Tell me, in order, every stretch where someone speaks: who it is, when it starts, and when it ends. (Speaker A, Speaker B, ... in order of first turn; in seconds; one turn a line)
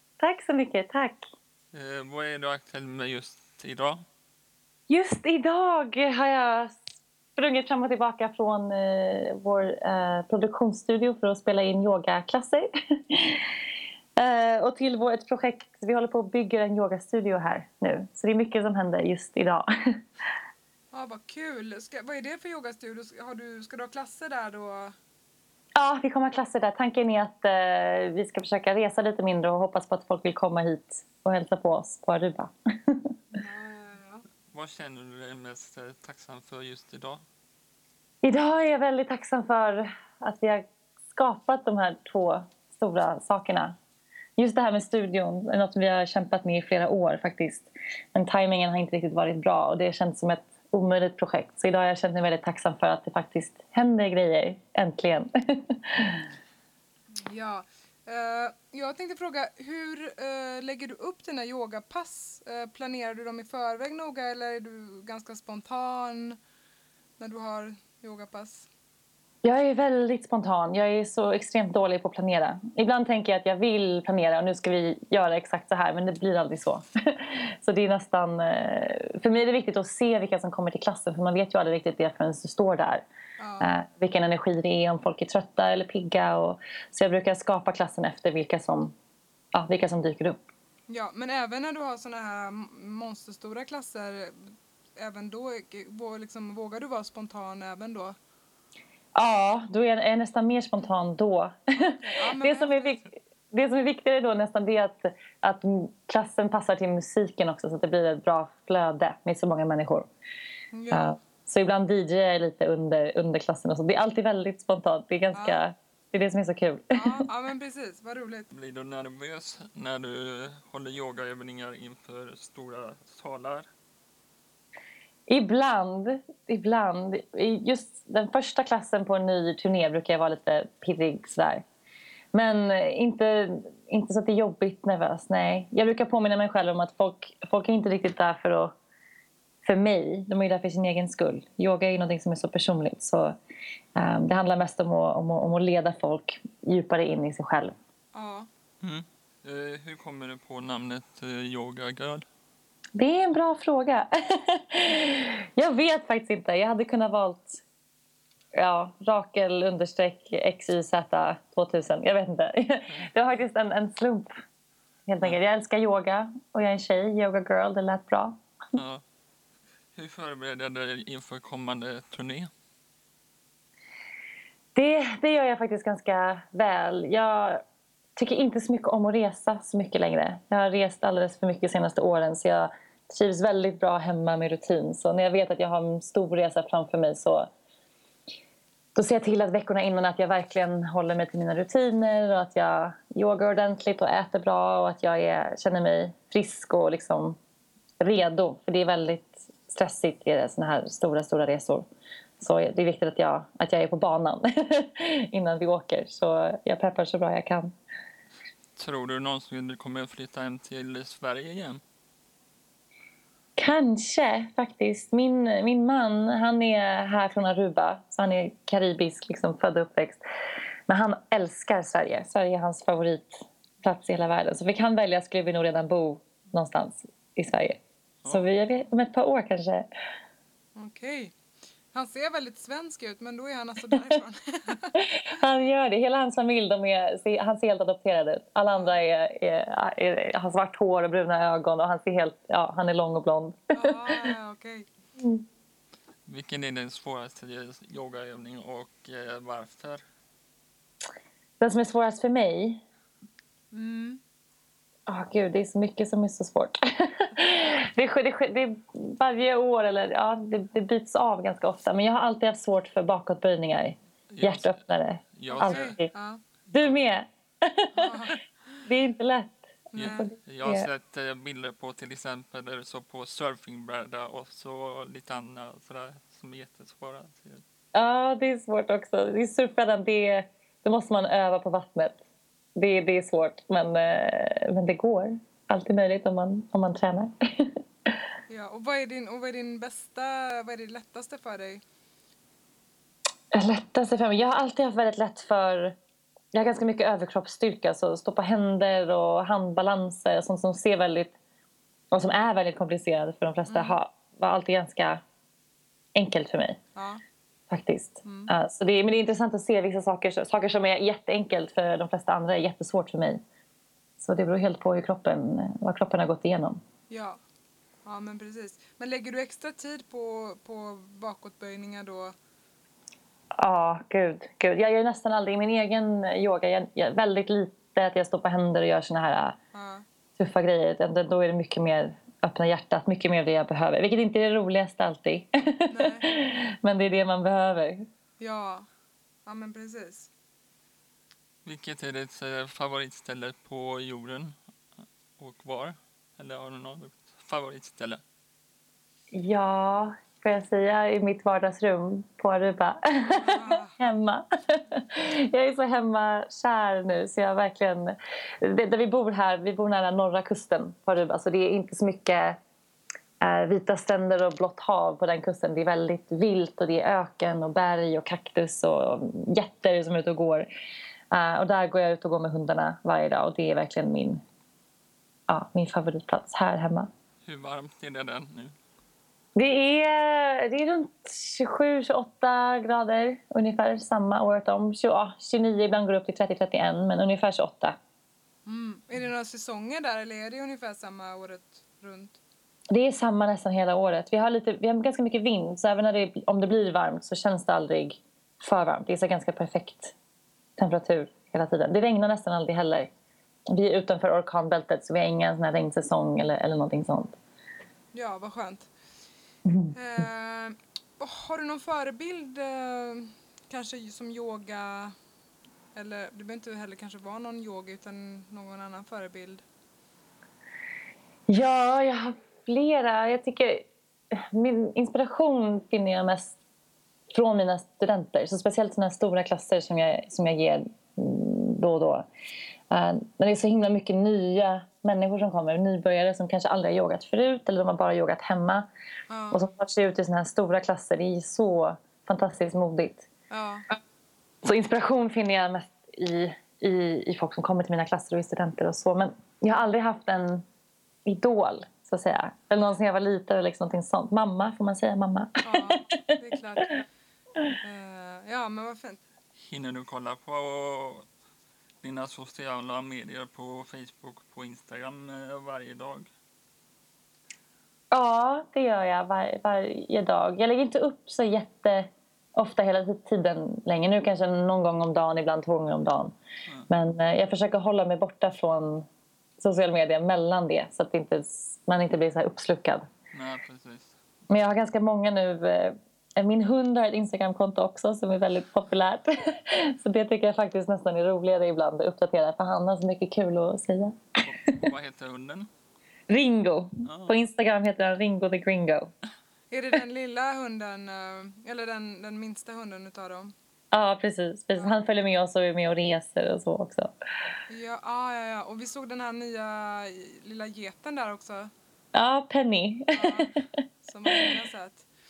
Speaker A: 0.2-1.3
Speaker B: 1.7-4.0
Speaker A: 4.9-6.8
Speaker A: 7.4-13.5
Speaker A: 14.2-19.6
Speaker C: 20.9-24.9
Speaker A: 25.8-33.1
Speaker C: 33.3-34.2
Speaker B: 34.5-37.2
Speaker A: 38.2-43.7
Speaker A: 44.4-56.2
Speaker C: 57.1-66.4
Speaker C: 67.2-68.7
Speaker A: 69.4-83.0
Speaker C: 83.4-83.7
Speaker A: 83.6-88.9
Speaker A: 89.5-90.4
Speaker C: 90.9-98.2
Speaker A: 99.1-110.1
Speaker C: 102.0-103.0
Speaker C: 110.7-111.1
Speaker A: 110.9-117.1
Speaker C: 115.3-115.6
Speaker C: 116.9-118.5
Speaker B: 118.5-123.7
Speaker A: 125.3-131.6
Speaker A: 132.3-138.7
Speaker A: 139.6-143.3
Speaker A: 143.9-147.7
Speaker C: 148.1-148.5
Speaker B: 148.8-152.2
Speaker A: 152.9-157.6
Speaker A: 158.5-164.3
Speaker A: 165.1-168.4
Speaker B: 168.7-169.0
Speaker B: 169.9-172.5
Speaker A: 174.7-177.6
Speaker A: 178.2-187.5
Speaker A: 188.9-197.4
Speaker A: 198.0-201.8
Speaker A: 202.4-207.7
Speaker B: 208.8-211.8
Speaker A: 213.6-220.2
Speaker A: 220.9-227.8
Speaker A: 228.3-229.9
Speaker C: 230.7-231.3
Speaker C: 231.9-235.0
Speaker A: 234.9-244.2
Speaker C: 238.7-239.0
Speaker C: 243.7-244.9
Speaker B: 246.2-250.0
Speaker A: 251.6-252.8
Speaker C: 253.7-254.2
Speaker A: 255.1-266.1
Speaker B: 264.3-264.8
Speaker B: 265.4-265.9
Speaker C: 265.5-266.4
Speaker B: 266.7-267.0
Speaker A: 266.7-268.2
Speaker C: 267.9-268.8
Speaker A: 268.9-270.9
Speaker C: 269.9-270.3
Speaker B: 269.9-277.6
Speaker A: 277.9-282.2
Speaker A: 282.8-287.7
Speaker C: 288.5-291.8
Speaker A: 293.5-295.9
Speaker A: 296.5-301.3
Speaker A: 302.1-305.2
Speaker C: 303.7-304.0
Speaker A: 306.1-306.8
Speaker C: 306.9-307.2
Speaker A: 307.7-313.4
Speaker C: 308.2-308.5
Speaker A: 314.2-316.8
Speaker C: 317.1-317.4
Speaker C: 318.0-322.4
Speaker A: 323.6-329.6
Speaker C: 329.7-330.0
Speaker A: 330.4-338.0
Speaker C: 335.9-336.3
Speaker C: 338.4-338.9
Speaker C: 339.4-340.3
Speaker B: 341.6-344.6
Speaker B: 345.4-348.2
Speaker A: 349.3-362.6
Speaker C: 353.3-353.9
Speaker A: 363.4-370.7
Speaker A: 371.3-374.4
Speaker A: 375.5-377.1
Speaker B: 377.4-378.7
Speaker A: 379.6-388.0
Speaker C: 388.6-392.4
Speaker A: 392.9-400.1
Speaker A: 400.8-403.1
Speaker A: 403.7-407.4
Speaker C: 408.1-408.9
Speaker C: 409.9-415.1
Speaker C: 415.9-419.6
Speaker A: 421.5-426.6
Speaker A: 427.3-432.3
Speaker A: 432.9-438.9
Speaker C: 439.3-439.6
Speaker A: 439.5-443.3
Speaker C: 443.5-443.9
Speaker A: 444.6-450.6
Speaker A: 451.2-456.2
Speaker C: 455.6-457.0
Speaker C: 457.8-459.2
Speaker B: 459.6-461.3
Speaker B: 462.0-466.3
Speaker A: 468.1-476.3
Speaker A: 476.9-479.1
Speaker A: 479.6-483.1
Speaker B: 483.3-484.1
Speaker A: 484.5-494.2
Speaker B: 494.4-495.7
Speaker A: 496.3-499.1
Speaker B: 497.1-497.4
Speaker C: 499.7-503.5
Speaker A: 503.9-507.1
Speaker C: 507.7-511.7
Speaker A: 512.1-513.5
Speaker C: 513.1-515.1